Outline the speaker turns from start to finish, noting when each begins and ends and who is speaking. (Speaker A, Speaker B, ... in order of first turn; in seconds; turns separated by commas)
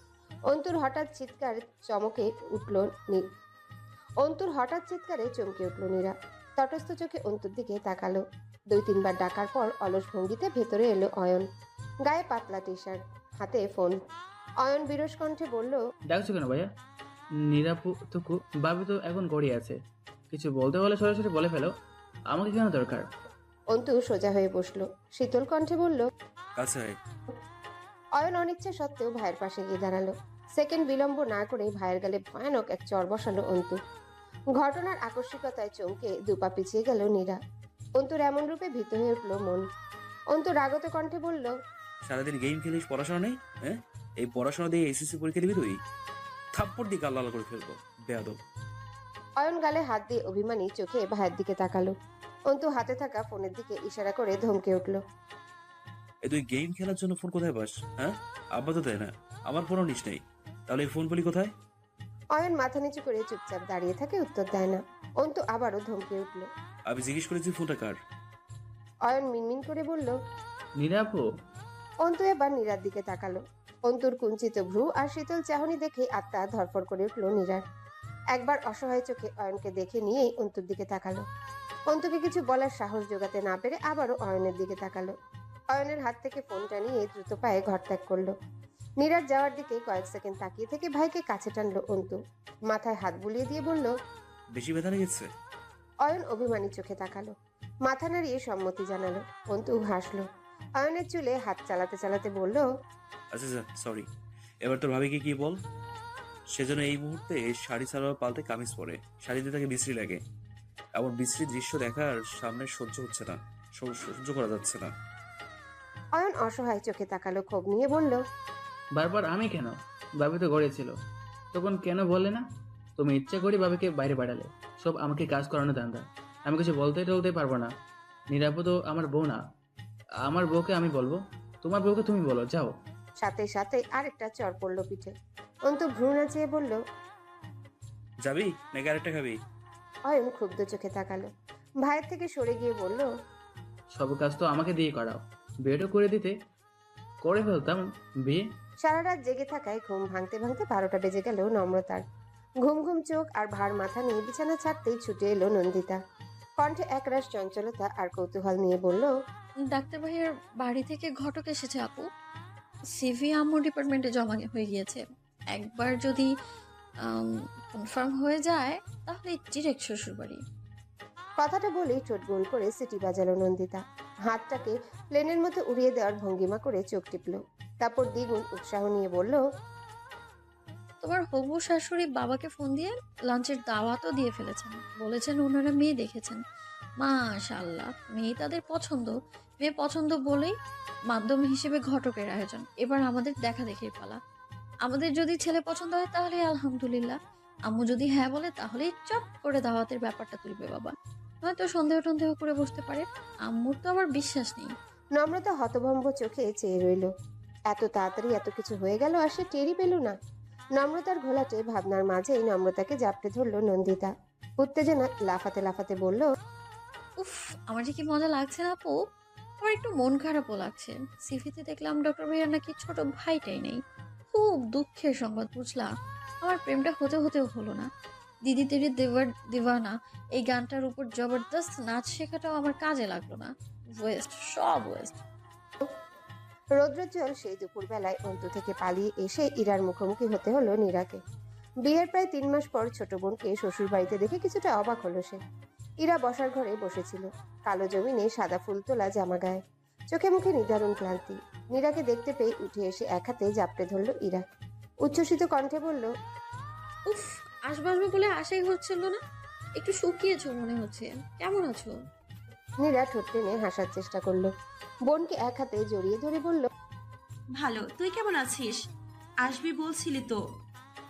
Speaker A: 0.5-3.2, Speaker A: 4.2-11.4, Speaker A: 12.0-14.0, Speaker A: 14.6-15.8, Speaker B: 16.1-16.7, Speaker B: 17.4-19.8, Speaker B: 20.3-21.7, Speaker B: 22.3-23.1, Speaker A: 23.7-26.1, Speaker C: 26.6-27.0, Speaker A: 28.2-33.8, Speaker A: 34.6-37.4, Speaker A: 38.0-39.6, Speaker A: 40.3-41.5, Speaker C: 42.0-45.7, Speaker C: 46.5-48.4, Speaker A: 49.4-51.9, Speaker A: 52.5-55.0, Speaker C: 56.2-61.5, Speaker A: 62.3-66.5, Speaker C: 66.9-68.0, Speaker A: 69.0-70.1, Speaker B: 70.8-71.2, Speaker A: 72.0-77.6, Speaker A: 78.3-81.2, Speaker A: 81.9-85.1, Speaker A: 85.7-88.3, Speaker A: 89.0-92.2, Speaker A: 92.7-93.9, Speaker C: 94.5-95.3, Speaker A: 96.0-97.3, Speaker A: 97.8-100.2, Speaker A: 100.8-102.7, Speaker C: 103.3-104.1, Speaker C: 104.6-105.6, Speaker C: 106.5-110.2, Speaker C: 111.0-114.9, Speaker A: 116.2-118.2, Speaker B: 118.9-120.9, Speaker B: 121.5-122.4, Speaker B: 123.0-127.7, Speaker B: 128.3-129.4, Speaker B: 130.2-132.7, Speaker A: 133.2-135.1, Speaker A: 135.7-136.8, Speaker C: 138.2-139.3, Speaker A: 140.1-141.3, Speaker A: 141.8-143.1, Speaker B: 143.9-146.3, Speaker B: 147.2-148.4, Speaker A: 148.8-152.0, Speaker A: 152.6-156.0, Speaker A: 156.6-159.1, Speaker D: 159.7-162.1, Speaker D: 162.9-166.3, Speaker D: 167.0-170.4, Speaker A: 171.4-179.4, Speaker D: 181.0-186.4, Speaker D: 187.0-190.5, Speaker D: 191.1-194.2, Speaker D: 194.8-197.2, Speaker D: 197.7-204.7, Speaker A: 205.2-207.1, Speaker A: 207.7-210.1, Speaker A: 210.8-216.3, Speaker D: 217.2-219.0, Speaker D: 219.6-225.9, Speaker D: 226.4-227.9, Speaker D: 228.4-235.2, Speaker A: 236.8-241.2, Speaker A: 241.8-245.4, Speaker A: 246.0-249.6, Speaker A: 250.1-254.4, Speaker A: 255.0-256.1, Speaker D: 257.1-259.2, Speaker D: 259.8-261.9, Speaker A: 262.8-264.5, Speaker A: 265.1-266.7, Speaker E: 267.6-268.8, Speaker E: 269.4-270.4